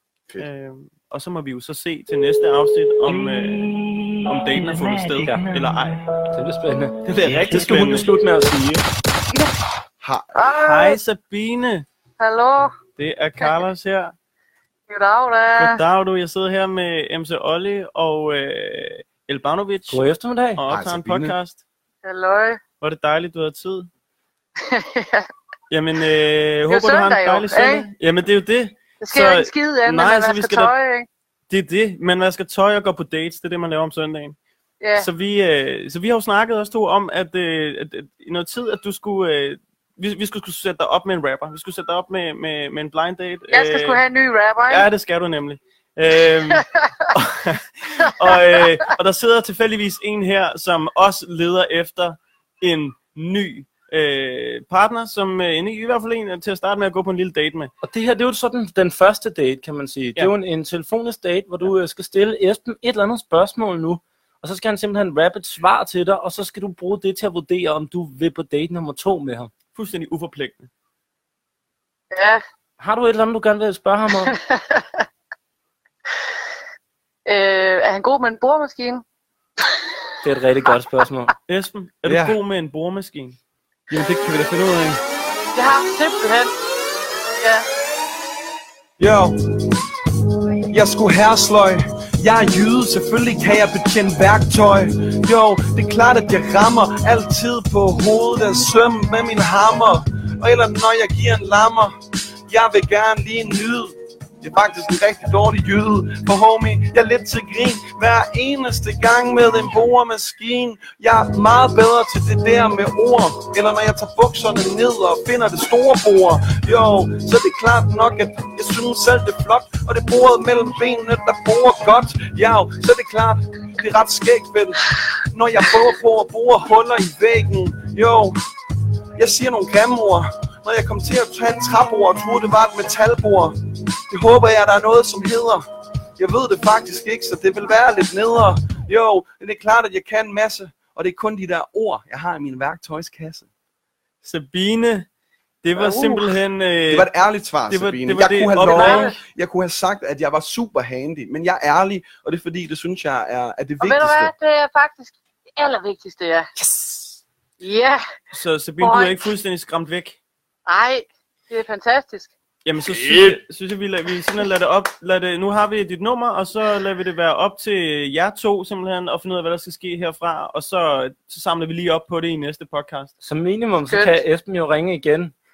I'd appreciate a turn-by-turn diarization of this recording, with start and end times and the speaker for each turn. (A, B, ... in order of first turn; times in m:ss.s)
0:00.4-0:06.0 A
0:06.3-0:08.8 B
0:07.0-0:08.1 A
0:10.0-0:10.3 C
0:10.6-0:11.8 A
0:12.2-0:12.7 D
0:13.0-0:14.1 A
0:14.9-0:15.8 D
0:15.6-0:20.0 A
0:19.9-0:20.6 B
0:20.6-0:21.6 A
0:20.7-0:21.4 C
0:22.0-0:22.6 D
0:22.8-0:23.9 A
0:24.6-0:25.3 D
0:25.7-0:30.7 A
0:26.7-0:27.9 D
0:29.0-0:31.1 D
0:31.5-0:34.4 A
0:34.8-0:35.1 D
0:35.0-0:44.0 A
0:43.5-0:44.9 D
0:44.7-0:57.7 A
0:57.8-1:09.5 B
1:09.7-1:10.7 A
1:12.1-1:12.4 D
1:12.8-1:14.3 B
1:14.2-1:15.0 D
1:17.2-1:19.0 D
1:20.2-1:21.3 B
1:21.5-1:23.4 A
1:22.0-1:22.4 C
1:23.9-1:25.0 C
1:25.5-1:26.5 D
1:27.3-1:27.6 D
1:29.0-1:29.7 C
1:30.6-2:08.4 C
2:09.2-2:15.6 C
2:16.2-2:23.5 C
2:24.2-2:25.1 A
2:25.6-2:27.1 A
2:26.9-2:34.3 C
2:27.7-2:29.1 A
2:28.7-2:29.0 D
2:33.8-2:36.5 D
2:37.6-2:38.0 D
2:38.3-2:40.2 A
2:38.8-2:39.2 D
2:40.7-2:42.3 D
2:42.6-2:53.1 A
2:42.9-2:43.3 C
2:53.2-2:55.3 B
2:53.9-2:54.2 D